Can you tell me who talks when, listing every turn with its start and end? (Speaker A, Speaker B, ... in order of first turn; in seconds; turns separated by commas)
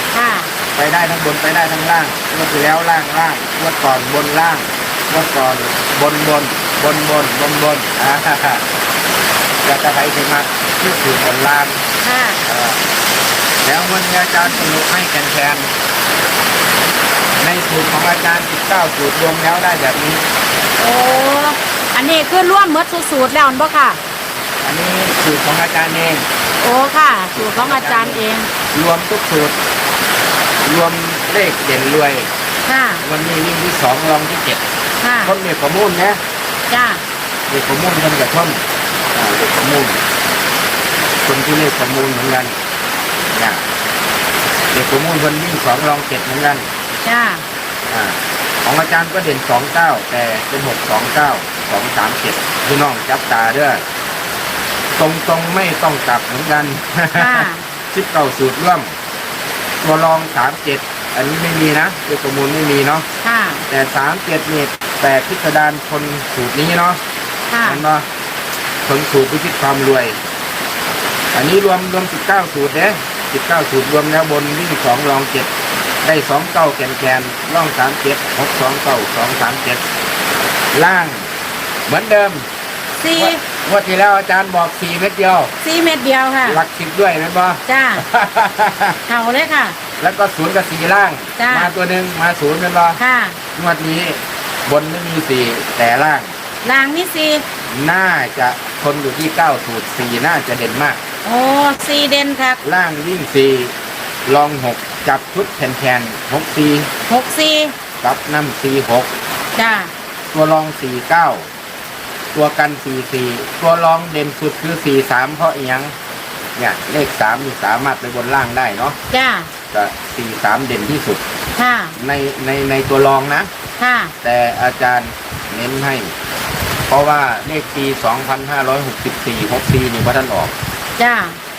Speaker A: 0.1-0.5, Speaker B: 0.7-8.7, Speaker B: 9.6-11.8, Speaker A: 12.0-12.4, Speaker B: 12.4-12.8, Speaker B: 13.6-15.7, Speaker B: 17.4-20.2, Speaker A: 20.8-24.0, Speaker B: 24.6-26.3, Speaker A: 26.6-28.5, Speaker B: 27.4-29.6, Speaker B: 30.6-32.3, Speaker A: 32.7-33.0, Speaker B: 33.0-34.6, Speaker A: 35.0-35.3, Speaker B: 35.2-36.2, Speaker A: 36.7-37.0, Speaker B: 37.5-40.0, Speaker B: 41.2-42.6, Speaker B: 43.3-43.7, Speaker B: 44.7-46.7, Speaker A: 47.0-47.5, Speaker B: 47.9-53.8, Speaker B: 55.0-59.0, Speaker A: 57.2-57.6, Speaker B: 59.8-63.1, Speaker A: 63.2-63.7, Speaker B: 63.7-67.0, Speaker A: 67.5-67.8, Speaker B: 67.6-68.1, Speaker B: 68.8-70.2, Speaker B: 71.3-75.5, Speaker B: 76.0-79.9, Speaker B: 80.7-81.3, Speaker B: 81.9-82.5, Speaker A: 83.0-83.4, Speaker B: 83.2-85.5, Speaker A: 85.6-86.6, Speaker B: 86.5-89.0, Speaker A: 87.7-88.0, Speaker A: 89.1-89.8, Speaker B: 90.0-93.0, Speaker A: 91.4-91.7, Speaker A: 93.0-93.4, Speaker B: 93.5-96.3, Speaker A: 96.6-97.4, Speaker B: 97.7-101.0, Speaker A: 101.2-102.6, Speaker B: 102.6-103.8, Speaker B: 104.3-106.9, Speaker A: 107.1-107.7, Speaker B: 108.0-109.1, Speaker A: 109.6-109.9, Speaker B: 110.3-111.5, Speaker B: 112.3-116.0, Speaker B: 116.6-119.0, Speaker A: 119.1-119.5, Speaker B: 119.7-121.2, Speaker A: 121.6-122.0, Speaker B: 122.0-123.5, Speaker A: 123.8-124.1, Speaker B: 124.2-126.1, Speaker B: 126.9-130.5, Speaker A: 131.0-131.4